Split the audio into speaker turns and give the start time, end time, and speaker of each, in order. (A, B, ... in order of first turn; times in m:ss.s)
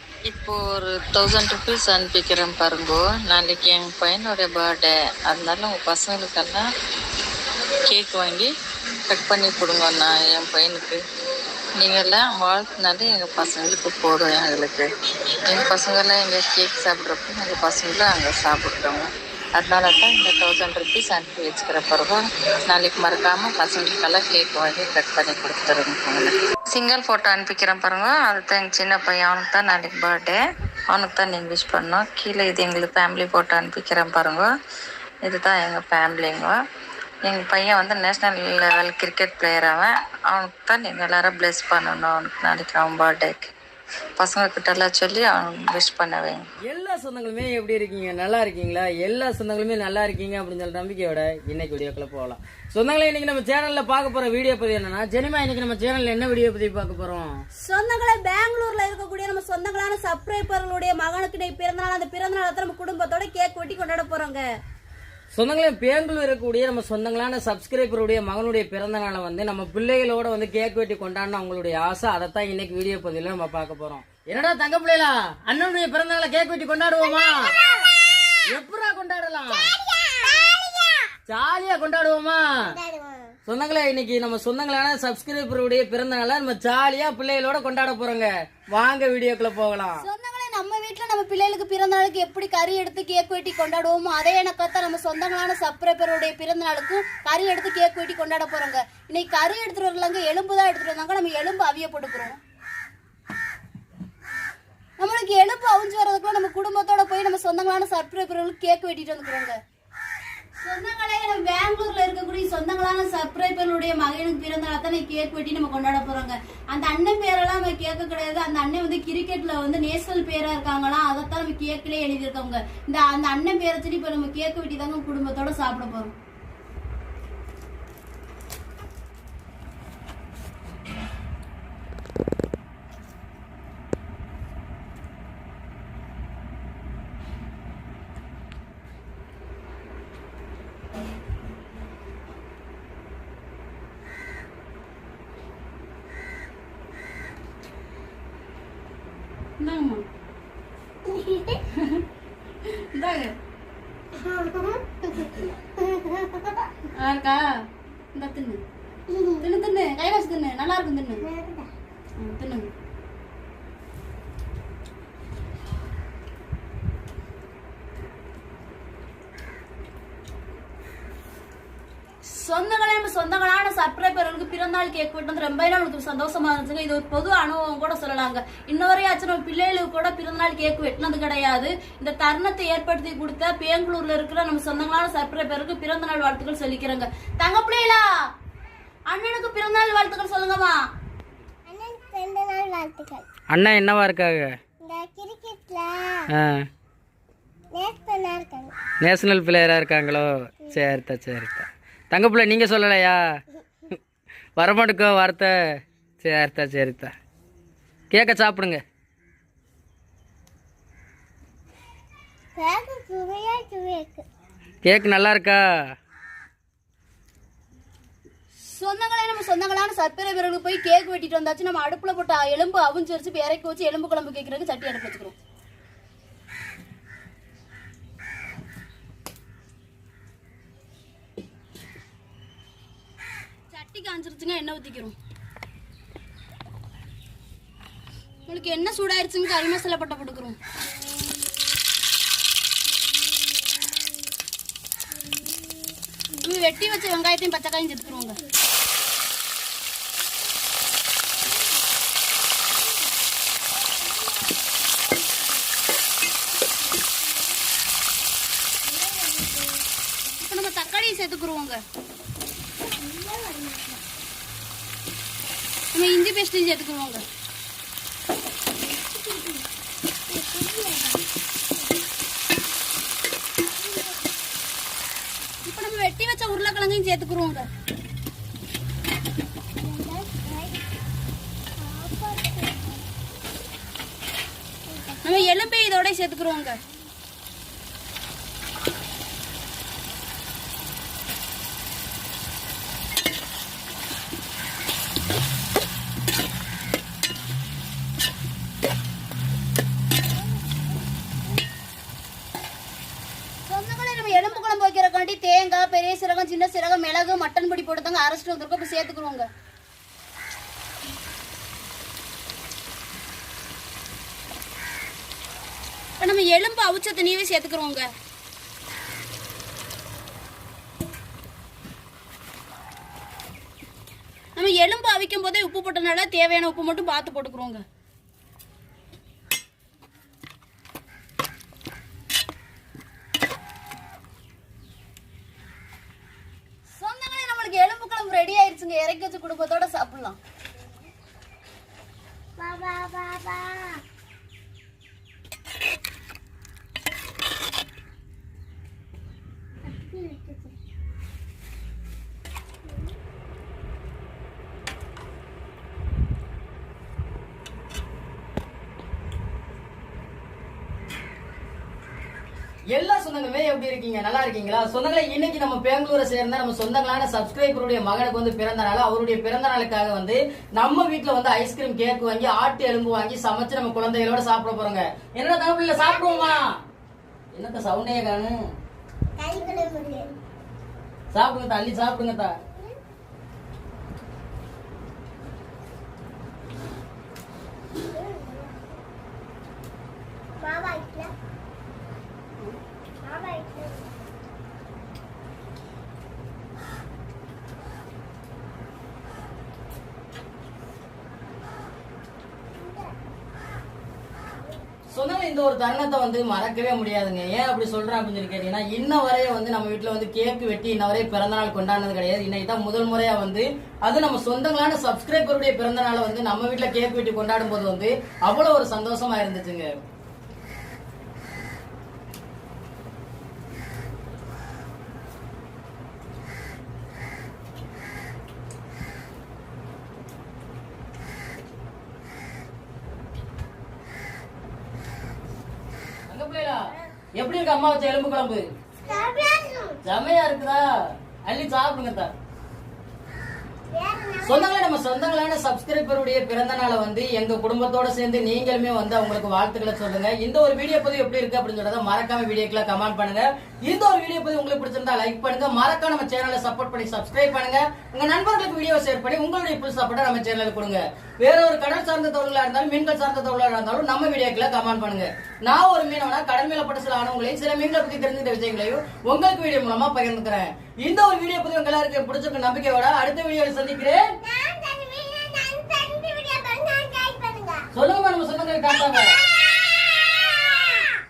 0:00.3-0:06.6 A
0:07.9-0:08.5 A
0:09.1-0:11.0 A
0:11.8-0:14.9 A
0:15.5-0:30.4 A
0:30.9-0:34.5 A
0:35.2-0:36.5 A
0:37.3-0:43.5 A
0:44.2-0:46.4 A
0:46.6-0:57.4 B
0:57.6-1:04.5 C
1:05.3-1:17.5 B
1:17.0-1:17.9 D
1:18.5-1:19.7 B
1:19.5-1:21.1 D
1:21.3-1:22.6 B
1:22.7-1:23.3 D
1:23.4-1:30.0 B
1:30.0-1:42.4 C
1:45.0-1:49.6 C
1:50.6-2:06.1 C
2:29.6-2:30.0 C
2:31.0-2:31.6 D
2:31.7-2:32.0 C
2:32.6-2:33.3 C
2:34.2-2:36.4 D
2:37.0-2:37.6 C
2:38.1-2:38.6 C
2:39.1-2:39.4 D
2:39.4-2:41.2 C
2:41.2-2:41.7 D
2:42.2-2:42.7 C
2:52.2-3:08.1 C
3:09.1-3:10.8 C
3:11.7-3:13.2 D
3:13.5-3:14.6 B
3:14.8-3:16.3 D
3:16.3-3:16.7 B
3:17.7-3:18.7 D
3:19.0-3:23.2 B
3:24.6-3:25.5 B
3:26.2-3:27.1 B
3:28.1-3:28.8 B
3:32.6-3:34.2 D
3:34.8-3:35.6 B
3:38.6-3:45.4 C
3:53.7-3:55.1 C
3:58.4-4:00.6 C
4:06.4-4:08.4 C
4:14.1-4:14.5 D
4:18.9-4:19.7 D
4:20.4-4:21.8 C
4:22.8-4:24.0 D
4:25.9-4:27.2 C
4:28.8-4:29.6 D
4:30.3-4:31.2 D
4:33.8-4:34.4 D
4:35.6-4:37.7 C
4:39.8-4:40.8 D
4:41.8-4:43.1 D
4:44.9-4:45.5 D
4:45.2-4:46.8 C
5:03.7-5:09.5 C
5:16.2-5:18.1 C
5:24.6-5:27.8 C
5:37.0-5:40.4 C
5:42.6-5:44.0 D
5:49.8-5:50.7 D
6:02.9-6:16.8 B
6:16.0-6:16.6 D
6:17.5-6:18.6 B
6:19.4-6:20.3 D
6:21.3-6:22.5 B
6:22.7-6:23.0 D
6:28.1-6:28.9 D
6:30.6-6:31.3 D
6:33.2-6:34.1 D
6:42.8-6:43.1 D
6:45.1-6:59.9 B
7:16.3-7:18.6 B
7:19.0-7:20.0 D
7:20.0-7:20.8 B
7:21.4-7:22.3 B
7:23.9-7:24.8 D
7:24.4-7:54.3 B
7:54.4-7:57.8 D
7:57.9-7:59.4 B
7:59.3-8:01.0 D